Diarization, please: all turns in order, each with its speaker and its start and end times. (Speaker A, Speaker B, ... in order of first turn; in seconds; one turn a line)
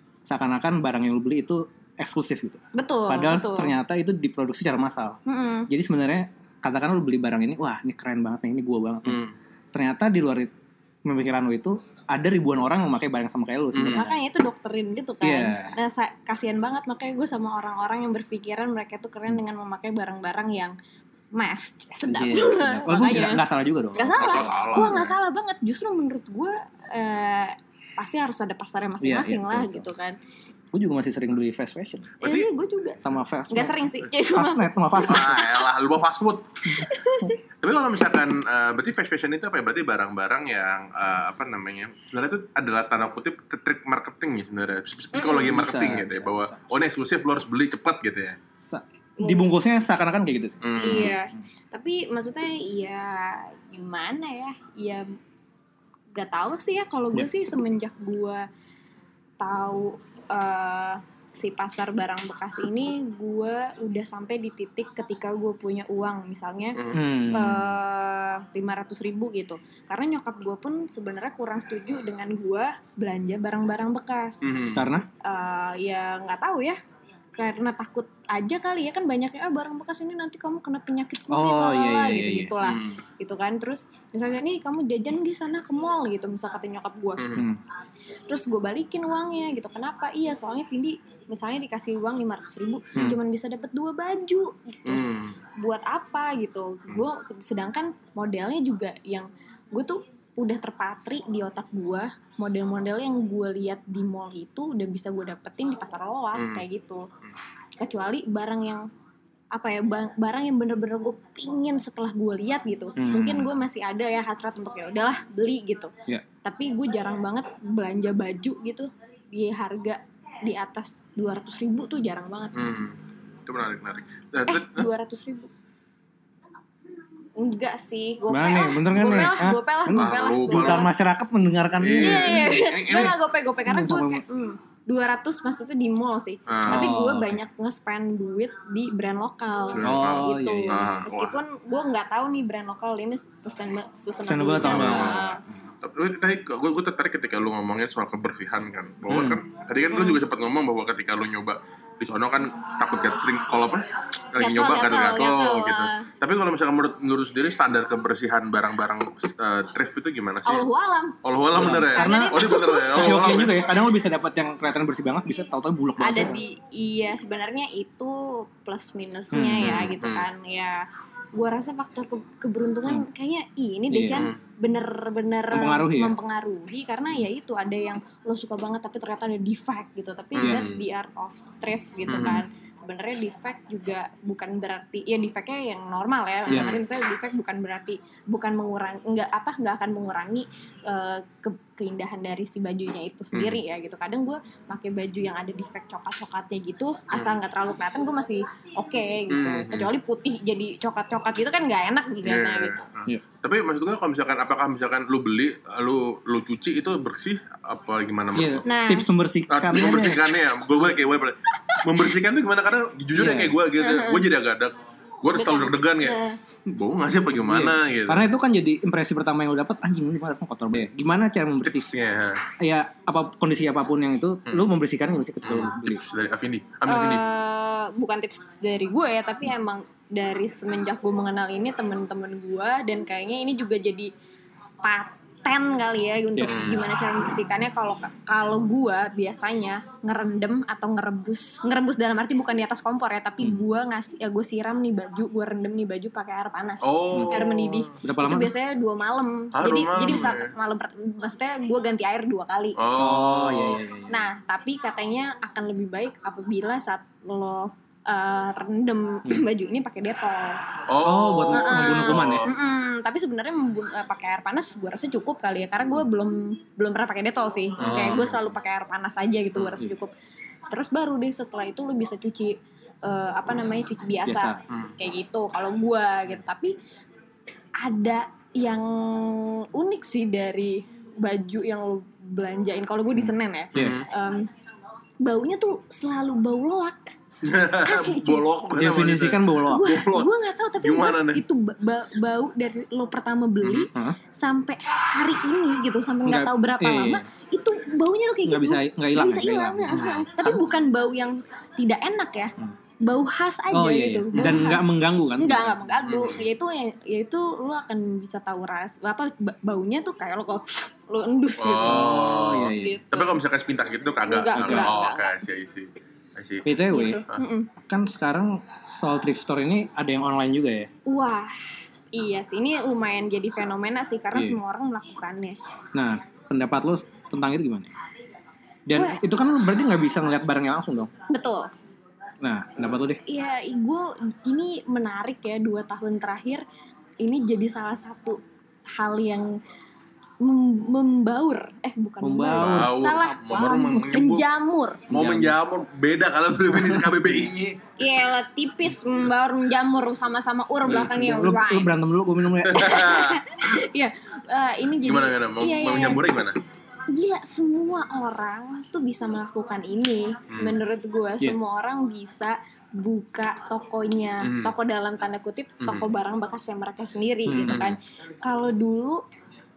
Speaker A: 0.3-9.2
Speaker B: 2.7-3.7
Speaker B: 5.2-5.7
Speaker C: 9.0-9.3
Speaker A: 9.7-10.5
Speaker A: 11.1-14.2
Speaker C: 13.7-14.0
Speaker B: 13.9-20.8
Speaker A: 15.2-15.7
Speaker B: 21.3-23.4
Speaker A: 22.1-25.0
Speaker B: 23.9-30.1
Speaker C: 24.1-25.1
Speaker A: 29.0-29.9
Speaker A: 30.7-32.1
Speaker B: 32.2-35.6
Speaker C: 32.2-32.5
Speaker A: 33.0-35.4
Speaker C: 35.0-36.7
Speaker B: 36.8-37.3
Speaker C: 37.6-48.4
Speaker B: 45.1-45.5
Speaker A: 45.3-46.7
Speaker A: 48.7-51.1
Speaker B: 49.2-49.5
Speaker C: 50.6-51.2
Speaker B: 50.8-55.1
Speaker B: 56.1-58.5
Speaker B: 59.4-74.4
Speaker C: 66.7-67.0
Speaker A: 66.9-67.7
Speaker C: 74.4-74.9
Speaker A: 74.7-75.0
Speaker B: 75.2-76.8
Speaker B: 77.3-87.2
Speaker A: 81.3-82.5
Speaker C: 82.6-83.0
Speaker C: 87.2-87.5
Speaker A: 87.3-87.6
Speaker B: 88.3-95.0
Speaker C: 94.8-95.4
Speaker B: 95.6-107.1
Speaker C: 106.3-106.7
Speaker B: 107.8-108.9
Speaker B: 109.5-115.9
Speaker A: 113.0-113.5
Speaker B: 116.4-122.7
Speaker C: 122.5-124.9
Speaker B: 124.5-125.5
Speaker B: 127.3-130.9
Speaker A: 128.3-133.0
Speaker C: 129.9-130.9
Speaker C: 131.8-133.2
Speaker B: 132.0-145.4
Speaker A: 133.7-134.2
Speaker C: 136.5-136.9
Speaker A: 136.7-137.4
Speaker C: 139.7-141.4
Speaker A: 139.8-140.8
Speaker A: 144.3-145.2
Speaker C: 144.6-160.7
Speaker A: 149.1-149.4
Speaker B: 149.9-150.2
Speaker B: 154.3-156.1
Speaker B: 160.4-161.2
Speaker C: 161.2-163.8
Speaker A: 161.5-166.4
Speaker B: 161.9-163.0
Speaker B: 166.0-202.8
Speaker A: 169.3-169.8
Speaker C: 169.6-170.2
Speaker A: 173.9-174.3
Speaker C: 174.1-174.3
Speaker A: 175.5-176.1
Speaker C: 180.3-180.8
Speaker A: 180.4-180.7
Speaker C: 182.1-182.4
Speaker A: 182.1-182.4
Speaker A: 186.5-186.8
Speaker C: 186.5-186.8
Speaker C: 193.3-193.6
Speaker C: 197.1-197.4
Speaker C: 199.3-199.9
Speaker C: 202.2-208.6
Speaker A: 208.3-210.3
Speaker B: 208.6-209.1
Speaker C: 209.5-218.3
Speaker A: 213.1-213.6
Speaker B: 213.8-214.2
Speaker B: 215.3-216.4
Speaker A: 217.4-221.9
Speaker C: 221.6-222.4
Speaker A: 222.6-226.0
Speaker C: 224.4-224.7
Speaker C: 225.4-227.2
Speaker B: 226.9-234.1
Speaker B: 234.8-252.8
Speaker C: 236.4-236.8
Speaker C: 246.8-247.9
Speaker A: 248.0-248.5
Speaker C: 249.5-250.5
Speaker C: 252.8-253.8
Speaker A: 252.9-254.2
Speaker B: 254.1-260.8
Speaker C: 260.9-262.5
Speaker A: 261.0-262.4
Speaker B: 261.5-270.1
Speaker C: 267.8-268.4
Speaker A: 267.8-268.1
Speaker A: 269.6-269.9
Speaker B: 270.7-276.8
Speaker A: 274.2-274.6
Speaker B: 277.8-284.5
Speaker A: 283.7-284.0
Speaker C: 283.7-284.1
Speaker B: 285.2-287.1
Speaker C: 287.4-291.4
Speaker B: 287.8-288.5
Speaker A: 288.8-289.8
Speaker B: 289.7-313.3
Speaker C: 293.6-293.9
Speaker A: 293.9-294.2
Speaker A: 296.2-297.2
Speaker A: 298.4-300.6
Speaker A: 303.7-305.8
Speaker C: 304.4-304.6
Speaker C: 306.0-306.4
Speaker C: 311.6-316.8
Speaker A: 311.8-313.0
Speaker B: 314.3-315.3
Speaker A: 314.5-314.9
Speaker A: 316.6-317.2
Speaker B: 316.9-317.7
Speaker A: 317.8-320.9
Speaker B: 321.1-321.5
Speaker B: 322.1-325.6
Speaker A: 324.3-324.6
Speaker A: 325.9-327.9
Speaker A: 328.9-331.1
Speaker B: 328.9-329.2
Speaker B: 331.3-331.7
Speaker A: 332.4-333.2
Speaker B: 333.3-336.6
Speaker B: 337.2-338.4
Speaker B: 338.9-339.6
Speaker B: 340.4-345.0
Speaker A: 342.2-344.0
Speaker C: 342.5-344.4
Speaker A: 345.1-345.6
Speaker C: 345.1-347.8
Speaker A: 346.8-347.1
Speaker B: 348.0-351.9
Speaker A: 350.9-353.0
Speaker C: 352.6-353.8
Speaker B: 352.8-356.2
Speaker C: 355.0-356.6
Speaker B: 357.1-369.2
Speaker C: 360.5-360.8
Speaker C: 364.4-364.7
Speaker A: 367.5-367.9
Speaker C: 367.6-368.0